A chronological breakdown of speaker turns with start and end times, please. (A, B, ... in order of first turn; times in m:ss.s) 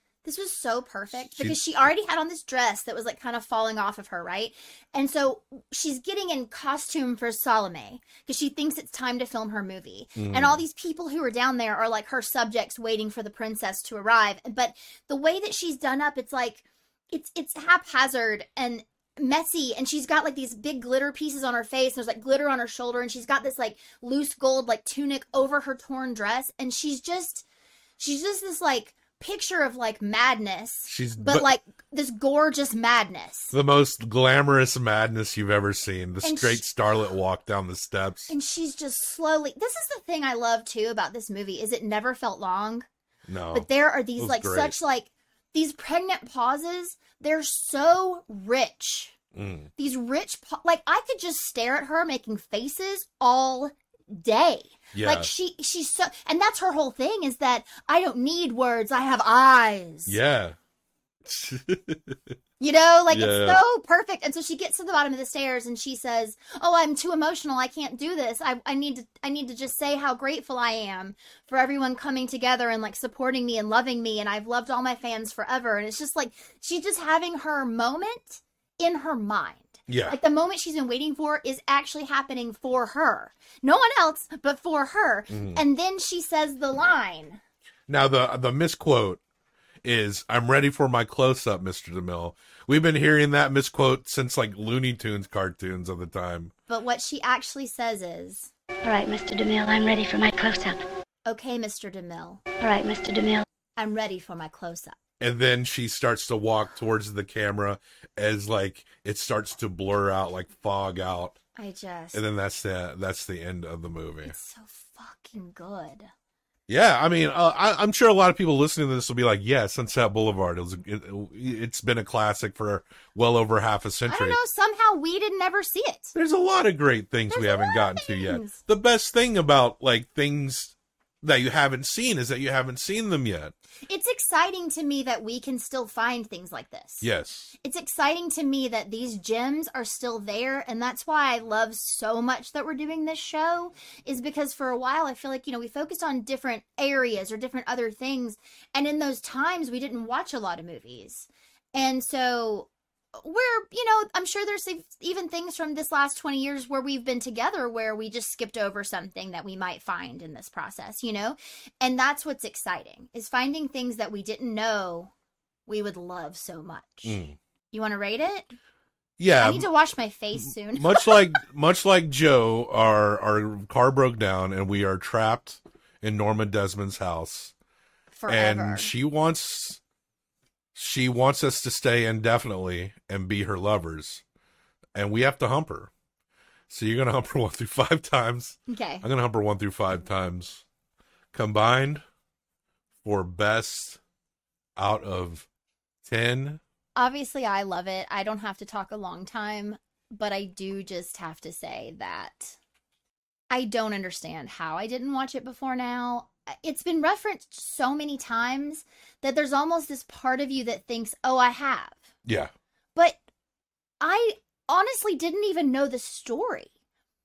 0:00.2-0:27.4 A
0:10.2-0:10.6 B
0:28.0-0:33.6 A
0:30.9-0:31.5 B
0:33.5-0:38.3 B
0:36.2-0:36.6 A
0:38.3-0:42.9 A
0:43.3-0:44.8 B
0:43.5-0:49.2 A
0:49.3-0:49.7 B
0:49.8-1:00.2 A
0:54.9-0:55.3 B
1:00.1-1:00.6 B
1:01.2-1:02.4 B
1:02.6-1:27.4 A
1:03.1-1:03.6 B
1:19.9-1:20.2 B
1:25.3-1:25.6 B
1:27.9-1:29.2 B
1:29.8-1:36.5 B
1:36.7-1:38.5 A
1:38.8-1:40.8 C
1:41.3-1:42.4 A
1:42.6-1:43.4 C
1:43.8-1:45.0 A
1:45.2-1:51.4 B
1:51.6-1:52.2 A
1:52.1-1:54.4 B
1:54.2-1:56.1 A
1:56.7-2:04.4 B
2:04.1-2:06.2 A
2:06.1-2:13.5 B
2:07.3-2:08.6 A
2:13.9-2:17.1 A
2:17.0-2:17.5 B
2:17.6-2:45.1 A
2:45.7-2:47.2 A
2:47.0-2:47.4 B
2:47.7-2:48.5 A
2:49.2-2:49.7 B
2:49.4-2:51.4 A
2:50.4-2:57.5 B
2:58.1-2:58.9 A
2:58.3-2:59.8 B
3:00.8-3:04.2 B
3:05.0-3:05.9 B
3:06.7-3:10.6 B
3:08.7-3:09.1 A
3:11.3-3:12.0 B
3:13.0-3:14.0 B
3:14.8-3:15.5 B
3:16.0-3:16.6 B
3:17.0-3:22.6 A
3:23.5-3:32.0 A
3:32.2-3:32.5 B
3:34.0-3:36.7 A